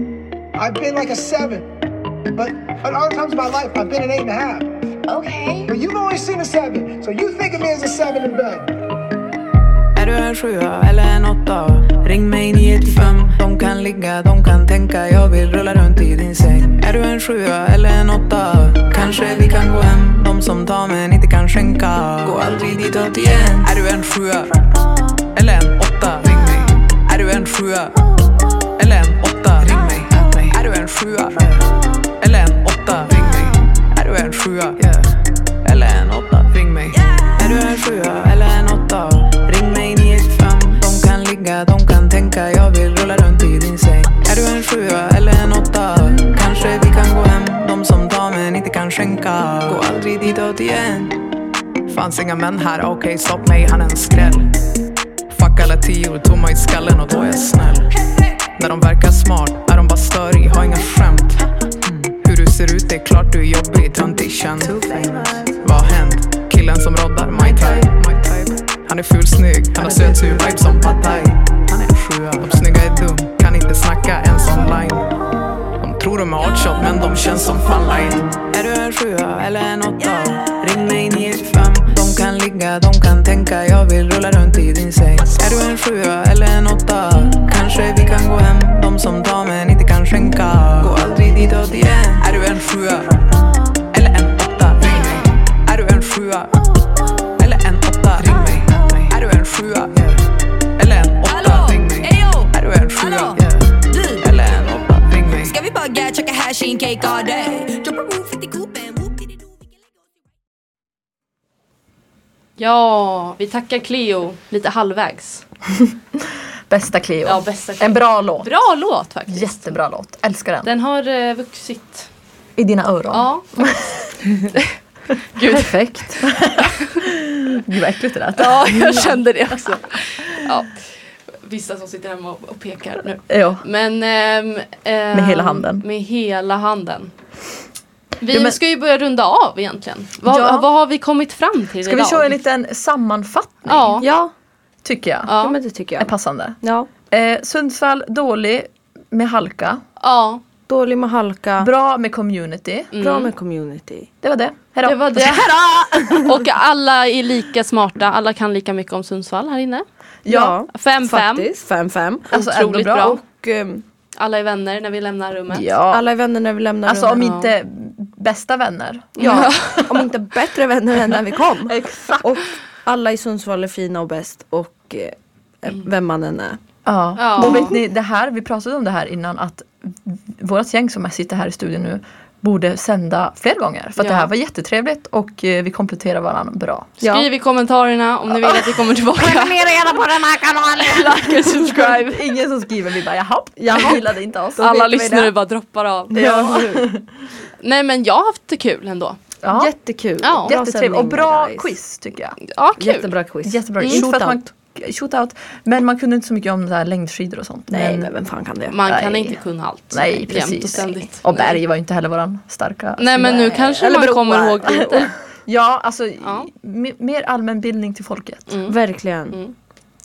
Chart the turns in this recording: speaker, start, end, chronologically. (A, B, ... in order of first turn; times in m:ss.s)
0:00.6-0:01.7 A
0:02.3-0:04.7 A
0:05.6-0:08.7 A
0:09.9-0:28.1 B
0:28.6-0:51.2 B
0:37.0-0:37.3 C
0:51.9-0:54.5 B
0:55.3-0:58.0 B
0:58.5-1:15.2 B
1:09.8-1:11.2 D
1:15.8-1:33.3 B
1:33.9-1:45.6 B
1:38.4-1:38.7 C
1:41.2-1:44.3 C
1:45.4-1:49.6 C
1:52.6-1:55.4 E
1:56.7-1:58.5 F
1:57.2-1:59.8 E
1:59.3-2:00.7 F
2:00.6-2:02.1 E
2:02.6-2:04.2 F
2:03.1-2:03.4 E
2:05.3-2:05.8 E
2:05.5-2:06.3 D
2:06.3-2:09.2 F
2:08.4-2:17.1 E
2:13.3-2:13.6 F
2:15.1-2:15.8 F
2:18.2-2:22.4 E
2:18.3-2:18.6 F
2:20.2-2:20.7 F
2:21.8-2:24.0 F
2:23.7-2:24.1 E
2:24.0-2:24.3 D
2:24.8-2:25.4 F
2:25.3-2:25.6 E
2:25.4-2:26.1 D
2:26.0-2:26.6 F
2:26.6-2:26.9 D
2:27.1-2:29.8 F
2:30.0-2:30.4 E
2:30.7-2:31.7 D
2:31.6-2:32.9 F
2:32.9-2:33.3 E
2:33.0-2:34.1 D
2:34.2-2:36.3 F
2:34.8-2:39.8 E
2:40.2-2:40.6 F
2:40.3-2:43.8 D
2:40.7-2:41.5 E
2:42.3-2:43.1 F
2:42.3-2:43.2 E
2:44.2-2:45.7 E
2:45.5-2:46.0 F
2:45.9-2:47.3 D
2:46.8-2:50.1 F
2:47.2-2:47.5 E
2:49.2-2:56.6 D
2:49.2-2:49.8 E
2:51.1-2:52.4 F
2:56.8-3:07.0 F
2:57.2-2:57.8 E
3:04.0-3:04.3 E
3:07.0-3:09.6 E
3:07.0-3:07.3 D
3:08.3-3:15.3 F
3:09.7-3:09.9 D
3:10.8-3:12.3 E
3:13.6-3:14.8 D
3:14.6-3:16.8 E
3:16.1-3:17.0 F
3:16.2-3:16.8 D
3:17.6-3:19.2 E
3:19.4-3:19.7 F
3:19.4-3:21.7 D
3:20.2-3:20.5 E
3:20.4-3:22.4 F
3:22.4-3:23.1 E
3:22.8-3:24.4 D
3:23.4-3:28.1 F
3:23.8-3:24.0 E
3:27.7-3:28.8 D
3:28.7-3:31.6 E
3:28.8-3:29.4 F
3:29.9-3:33.4 F
3:33.0-3:35.1 E
3:33.2-3:35.0 D
3:34.6-3:38.6 F
3:36.2-3:36.5 E
3:38.5-3:38.7 E
3:38.7-3:39.4 D